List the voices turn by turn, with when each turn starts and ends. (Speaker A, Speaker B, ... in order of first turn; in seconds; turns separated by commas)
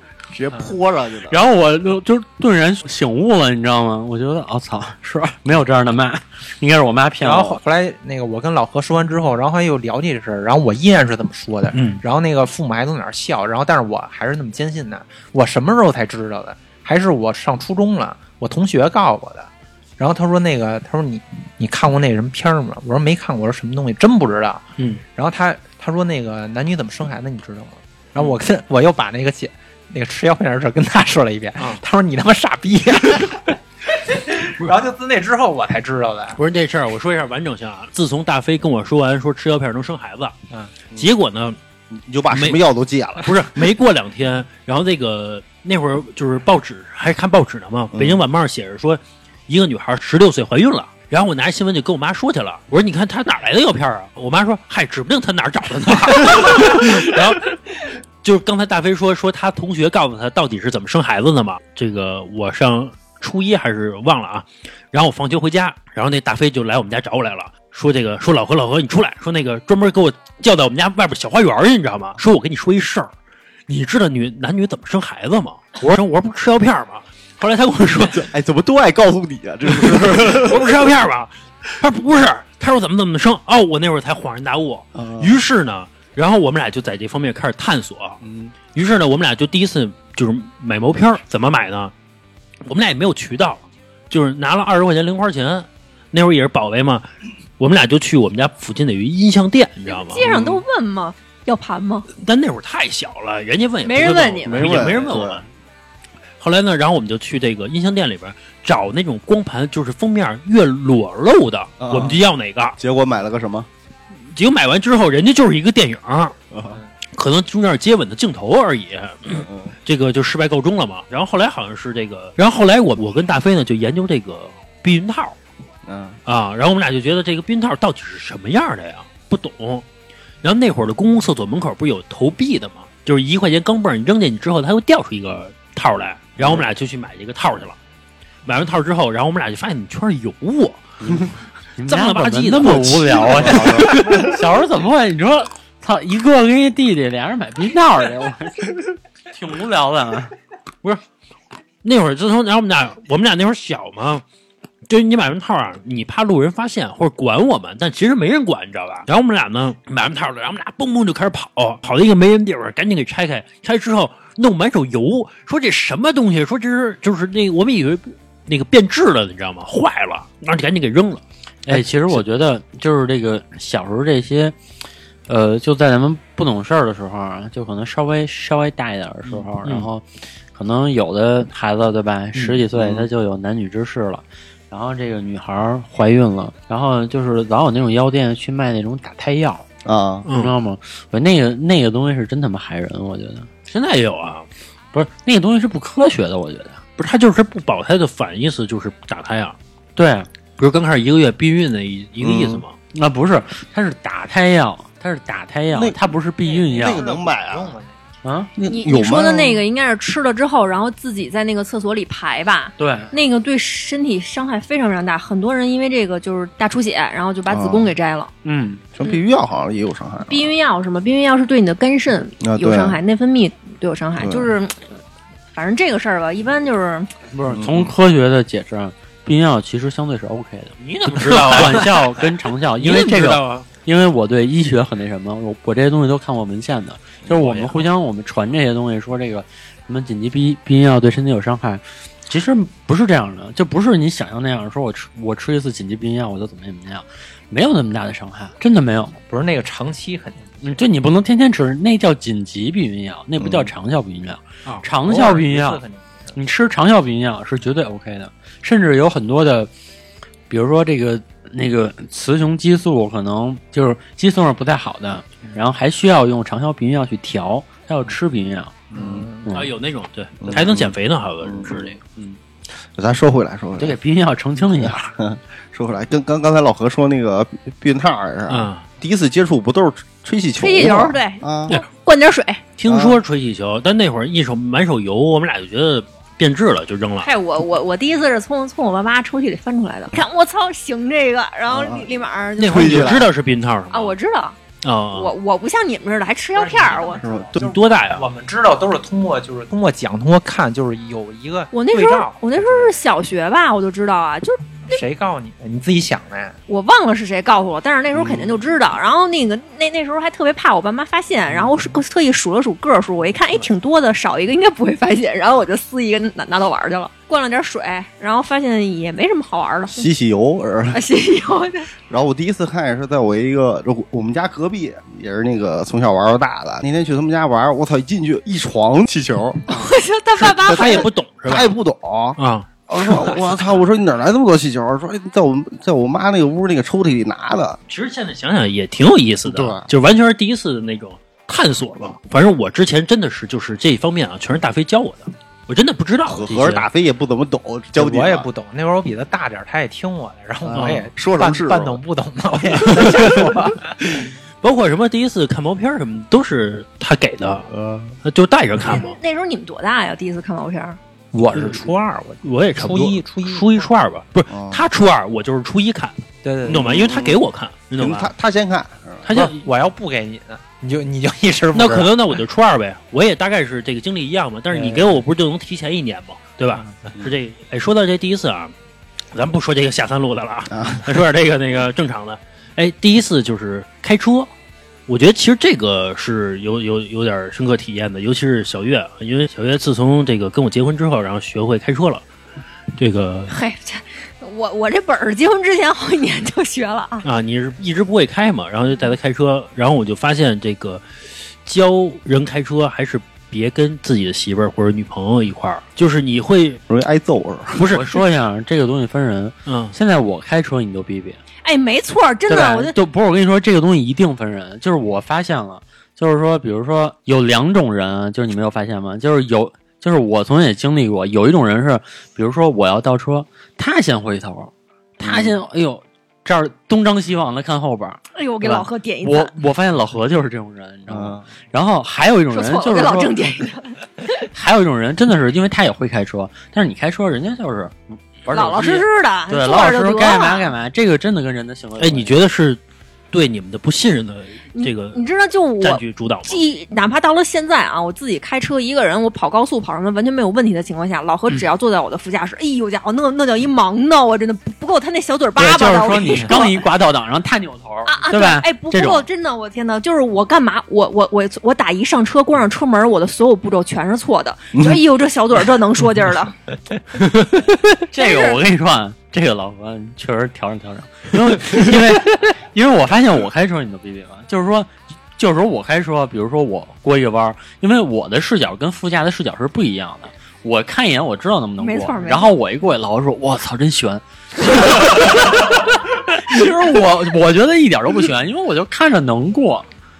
Speaker A: 0.3-1.4, Speaker B: 1.3-7.6, Speaker C: 7.2-36.4, Speaker D: 11.7-12.0, Speaker D: 24.8-25.0, Speaker D: 36.4-40.4, Speaker D: 40.9-41.6, Speaker A: 41.9-43.6, Speaker D: 42.3-42.6, Speaker D: 43.2-73.1, Speaker A: 47.9-48.2, Speaker D: 73.7-78.3, Speaker A: 78.0-80.8, Speaker D: 79.7-88.2, Speaker A: 84.9-85.4, Speaker A: 88.2-88.5, Speaker D: 88.7-91.9, Speaker D: 92.7-97.0, Speaker D: 97.6-100.3, Speaker E: 99.8-102.1, Speaker A: 100.2-100.6, Speaker D: 102.2-105.4, Speaker E: 103.8-104.9, Speaker A: 104.4-105.4, Speaker D: 106.4-112.8, Speaker A: 111.8-112.2, Speaker A: 112.8-113.7, Speaker D: 114.3-116.3, Speaker A: 116.5-116.8, Speaker D: 117.1-125.3, Speaker A: 119.3-119.7, Speaker A: 125.8-126.2, Speaker D: 126.2-129.8, Speaker D: 130.4-137.8, Speaker A: 136.4-136.7, Speaker D: 138.4-140.8, Speaker A: 141.0-141.3, Speaker B: 141.8-150.3, Speaker D: 141.9-144.2, Speaker A: 143.4-144.4, Speaker D: 151.8-154.2, Speaker D: 154.9-172.2, Speaker B: 171.7-174.6, Speaker B: 175.3-189.7, Speaker D: 179.3-179.9, Speaker D: 182.3-182.6, Speaker A: 182.7-183.1, Speaker A: 189.8-190.3, Speaker D: 190.2-190.5, Speaker B: 190.3-193.5, Speaker D: 193.7-194.5, Speaker B: 194.9-196.8, Speaker D: 197.0-199.6, Speaker B: 199.9-200.3, Speaker D: 200.6-202.7, Speaker A: 202.2-202.6, Speaker B: 202.9-207.0, Speaker A: 205.7-206.1, Speaker C: 206.4-208.0, Speaker A: 206.8-207.7, Speaker B: 208.2-208.5, Speaker A: 208.6-209.6, Speaker E: 208.7-218.3, Speaker B: 212.8-213.1, Speaker A: 217.5-217.9, Speaker B: 218.4-218.8, Speaker A: 219.0-220.5, Speaker E: 220.3-224.9, Speaker A: 222.4-223.0, Speaker A: 224.2-224.5, Speaker E: 225.5-227.1, Speaker B: 227.3-249.2, Speaker A: 227.5-227.9, Speaker D: 230.8-233.7, Speaker D: 237.4-237.9, Speaker C: 249.3-250.6, Speaker B: 250.6-255.8, Speaker A: 253.4-253.7, Speaker C: 255.0-256.4, Speaker B: 256.3-259.7, Speaker B: 260.5-268.8, Speaker A: 268.9-269.3, Speaker C: 268.9-269.4, Speaker B: 269.4-269.7, Speaker D: 269.5-272.0, Speaker A: 270.4-272.0, Speaker A: 272.9-274.0, Speaker B: 273.8-275.1, Speaker A: 274.8-281.8, Speaker D: 278.5-278.8, Speaker E: 280.6-282.7, Speaker D: 282.8-287.3, Speaker A: 282.9-283.2, Speaker E: 287.2-293.2, Speaker A: 291.7-292.1, Speaker D: 292.6-294.1, Speaker A: 292.6-293.3, Speaker E: 293.9-294.6, Speaker D: 294.8-295.3, Speaker E: 295.1-297.2, Speaker C: 296.5-302.9, Speaker A: 297.2-297.6, Speaker D: 297.6-298.3, Speaker E: 301.7-305.0, Speaker C: 304.9-306.6, Speaker E: 306.7-320.1, Speaker A: 308.1-308.5, Speaker A: 319.9-321.0, Speaker E: 320.9-321.9, Speaker A: 322.1-337.8, Speaker E: 329.7-331.1, Speaker D: 330.6-331.8, Speaker D: 332.4-333.5, Speaker D: 337.9-346.9, Speaker A: 339.4-339.9, Speaker A: 346.3-348.5, Speaker C: 347.9-354.1, Speaker A: 350.6-352.0, Speaker D: 350.8-351.0, Speaker D: 352.9-353.1, Speaker D: 354.6-357.7, Speaker A: 357.7-358.2, Speaker D: 358.2-359.2, Speaker E: 358.9-361.0, Speaker C: 361.3-363.9, Speaker D: 361.5-361.8, Speaker D: 362.4-368.3, Speaker A: 364.5-364.8, Speaker C: 366.4-366.9, Speaker A: 366.6-367.4, Speaker A: 368.0-369.3, Speaker D: 369.2-369.6, Speaker C: 369.3-372.3, Speaker D: 371.7-378.7, Speaker C: 374.7-375.2, Speaker D: 379.3-384.5, Speaker A: 380.7-381.0, Speaker D: 385.1-392.2, Speaker D: 392.9-393.5, Speaker E: 393.5-397.2, Speaker D: 397.2-401.0, Speaker D: 401.6-406.8, Speaker A: 406.9-407.9, Speaker D: 407.7-408.2, Speaker B: 407.9-411.4, Speaker D: 409.6-409.9, Speaker E: 411.6-412.9, Speaker B: 412.5-433.4, Speaker A: 425.2-425.6, Speaker E: 428.3-429.5, Speaker A: 431.1-431.4, Speaker E: 432.5-434.4, Speaker B: 434.5-442.3, Speaker E: 438.5-440.7, Speaker D: 442.0-442.8, Speaker D: 443.3-445.2, Speaker E: 444.8-456.9, Speaker D: 445.8-446.6, Speaker B: 455.6-459.2, Speaker E: 458.0-466.6, Speaker B: 468.0-489.9, Speaker E: 468.2-468.6, Speaker E: 481.8-482.6